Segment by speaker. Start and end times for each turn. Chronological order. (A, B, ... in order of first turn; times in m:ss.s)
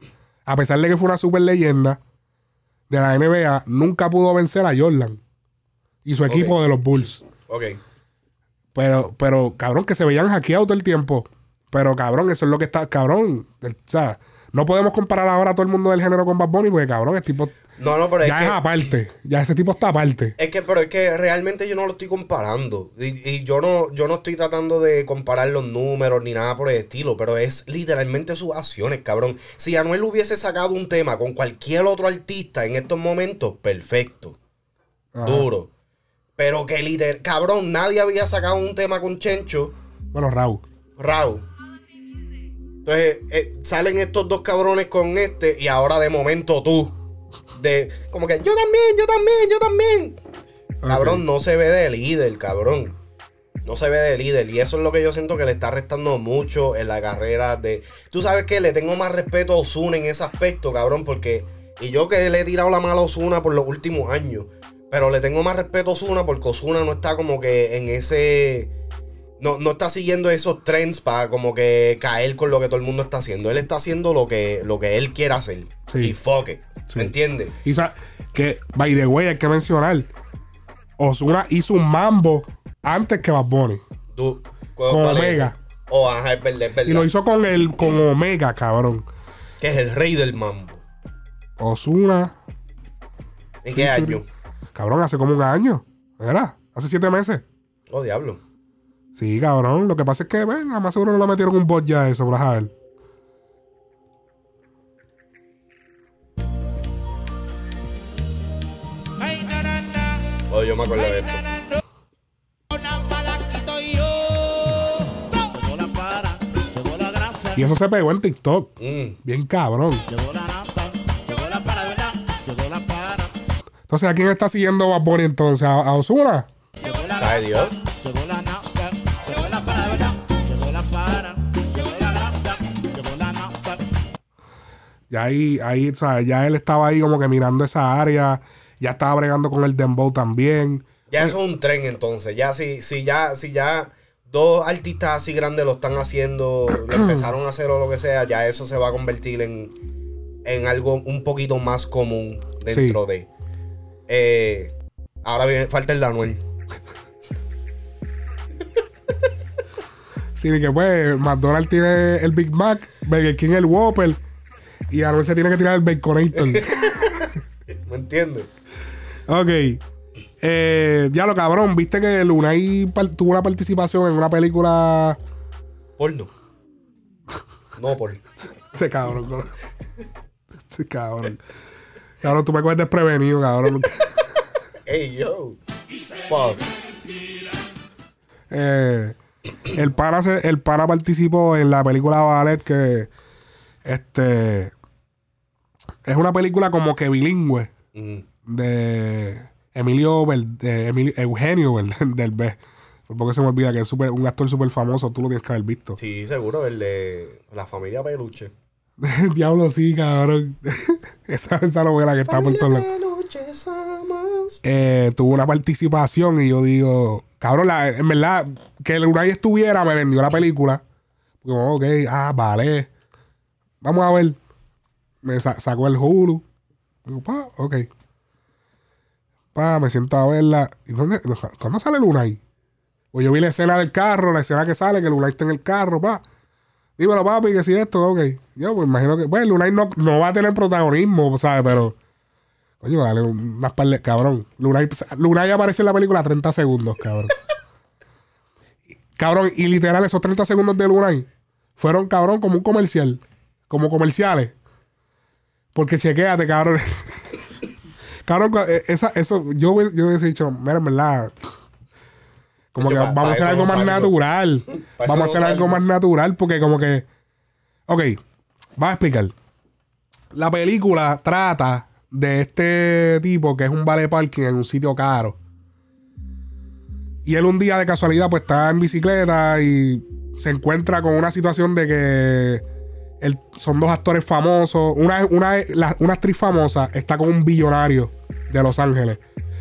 0:00.4-0:02.0 A
0:02.9-0:05.2 A
0:06.0-0:07.2 A
0:06.2-0:06.6 B
0:07.5-0:07.8 B
0:08.7-0:17.5 A
0:17.8-0:18.6 B
0:18.2-0:20.3 A
0:20.4-0:34.4 B
0:35.1-0:35.5 A
0:35.2-0:35.7 B
0:36.4-0:39.7 B
0:40.1-0:40.6 A
0:41.0-0:41.4 B
0:42.8-0:46.9 B
0:47.5-0:50.2 B
0:50.8-0:51.2 A
0:50.9-0:53.0 B
0:53.6-1:08.7 B
1:09.4-1:17.5 B
1:15.9-1:16.2 A
1:17.6-1:20.1 A
1:21.0-1:23.8 A
1:24.1-1:27.1 B
1:24.9-1:25.6 A
1:26.8-1:29.0 A
1:29.6-1:30.8 B
1:31.6-1:32.3 A
1:33.6-1:34.2 B
1:33.7-1:34.2 A
1:34.8-1:37.4 A
1:37.9-1:38.4 B
1:39.2-1:42.7 A
1:50.5-1:51.4 B
1:52.9-1:54.1 C
1:55.5-1:57.7 C
1:57.5-2:00.0 A
1:58.8-1:59.2 B
2:00.1-2:03.3 C
2:03.9-2:06.5 A
2:06.8-2:13.8 C
2:07.2-2:07.7 B
2:15.1-2:21.3 A
2:21.1-2:29.7 B
2:26.9-2:27.2 A
2:30.4-2:33.3 B
2:32.7-2:33.0 A
2:34.1-2:34.7 B
2:35.2-2:36.4 B
2:40.4-2:44.2 A
2:44.9-2:47.0 A
2:46.4-2:47.3 B
2:47.8-2:48.5 B
2:49.3-2:49.8 A
2:50.4-2:55.2 A
2:56.0-2:56.3 B
2:57.8-2:58.2 B
2:58.7-2:59.5 A
3:00.6-3:01.4 A
3:02.2-3:04.2 A
3:04.9-3:05.6 B
3:06.2-3:06.6 B
3:08.5-3:09.2 A
3:09.7-3:13.1 A
3:13.8-3:14.7 A
3:16.0-3:17.7 A
3:17.9-3:18.2 B
3:18.4-3:26.0 A
3:26.0-3:28.5 B
3:29.0-3:32.8 A
3:32.2-3:34.6 B
3:34.6-3:40.8 A
3:41.4-3:42.9 A
3:43.8-3:44.4 A
3:45.2-3:46.4 A
3:47.0-3:47.9 A
3:49.5-3:52.4 A
3:53.1-3:56.2 A
3:57.0-4:02.0 A
4:02.8-4:07.4 A
4:09.2-4:14.5 A
4:15.7-4:17.2 A
4:18.3-4:21.5 A
4:22.7-4:27.0 A
4:22.8-4:24.2 B
4:24.7-4:25.8 B
4:27.9-4:28.2 A
4:28.8-4:29.3 A
4:30.3-4:35.4 A
4:37.2-4:42.6 A
4:43.2-4:49.2 A